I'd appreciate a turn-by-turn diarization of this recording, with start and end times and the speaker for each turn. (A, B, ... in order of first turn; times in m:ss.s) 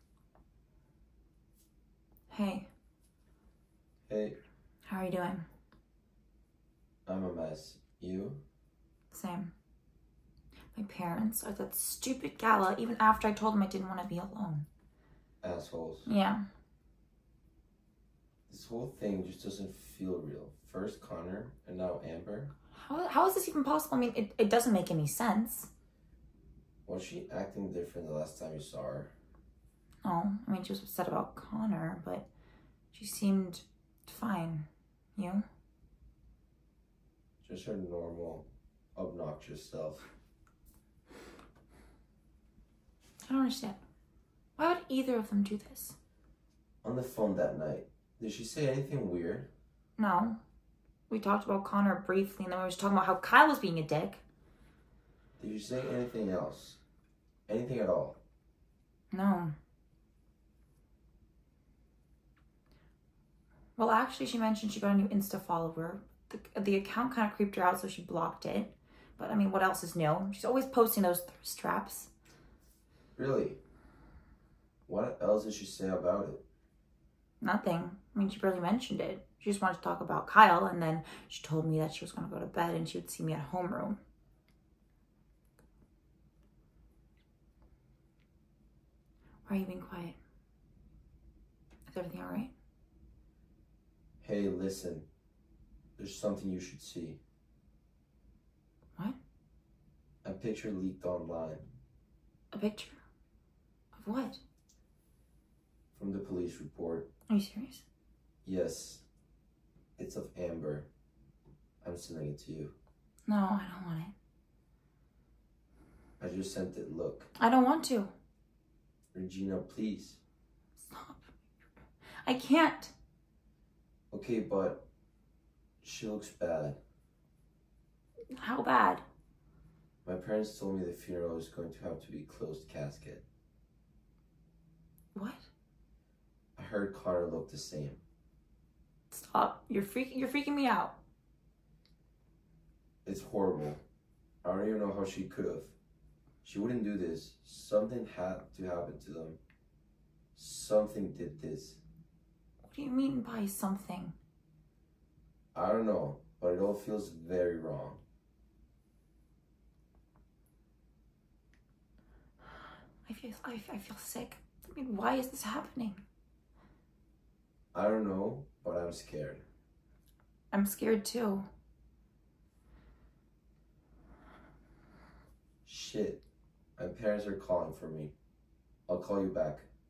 0:02.3-0:02.7 A
0:04.1-0:04.4 B
0:04.8-0:05.5 A
0:07.1-0:08.4 B
0:09.1-0:09.5 A
0:10.7-0:14.7 A
0:15.4-0:16.1 B
0:16.1-0:16.4 A
0:18.5-0:22.5 B
0:22.7-0:25.7 A
0:26.8-0:29.1 B
0:30.0-0:32.3 A
0:32.9-0:35.4 A
0:37.4-0:40.1 B
0:43.2-0:43.8 A
0:44.6-0:46.0 A
0:46.8-0:49.5 B
0:50.0-0:50.4 A
0:51.1-0:54.2 A
0:55.4-0:56.8 B
0:57.5-0:58.2 B
0:59.1-0:59.6 A
1:03.8-1:12.1 A
1:13.1-1:13.6 B
1:14.8-1:16.4 B
1:17.4-1:24.0 A
1:29.4-1:30.2 A
1:31.9-1:32.5 A
1:34.2-1:35.1 B
1:36.0-1:37.2 B
1:40.2-1:41.7 B
1:42.5-1:43.0 A
1:43.9-1:44.4 A
1:45.9-1:47.1 B
1:47.3-1:47.8 A
1:48.4-1:49.0 B
1:50.0-1:50.9 B
1:51.8-1:52.7 B
1:53.3-1:54.1 A
1:56.2-1:57.3 B
1:57.4-1:58.1 A
1:59.1-2:00.2 B
2:00.8-2:01.3 A
2:02.2-2:02.9 A
2:04.1-2:04.9 B
2:05.8-2:06.8 B
2:08.4-2:09.0 A
2:10.0-2:13.2 B
2:15.1-2:15.5 A
2:16.6-2:18.0 B
2:19.1-2:21.0 A
2:23.0-2:23.8 B
2:24.4-2:25.8 B
2:26.4-2:29.4 B
2:30.3-2:31.8 B
2:32.6-2:34.2 A
2:35.5-2:38.0 B
2:43.1-2:46.0 A
2:47.7-2:49.5 B
2:50.5-2:51.5 A
2:55.6-2:56.2 B
2:56.8-2:58.1 B
2:58.9-2:59.7 B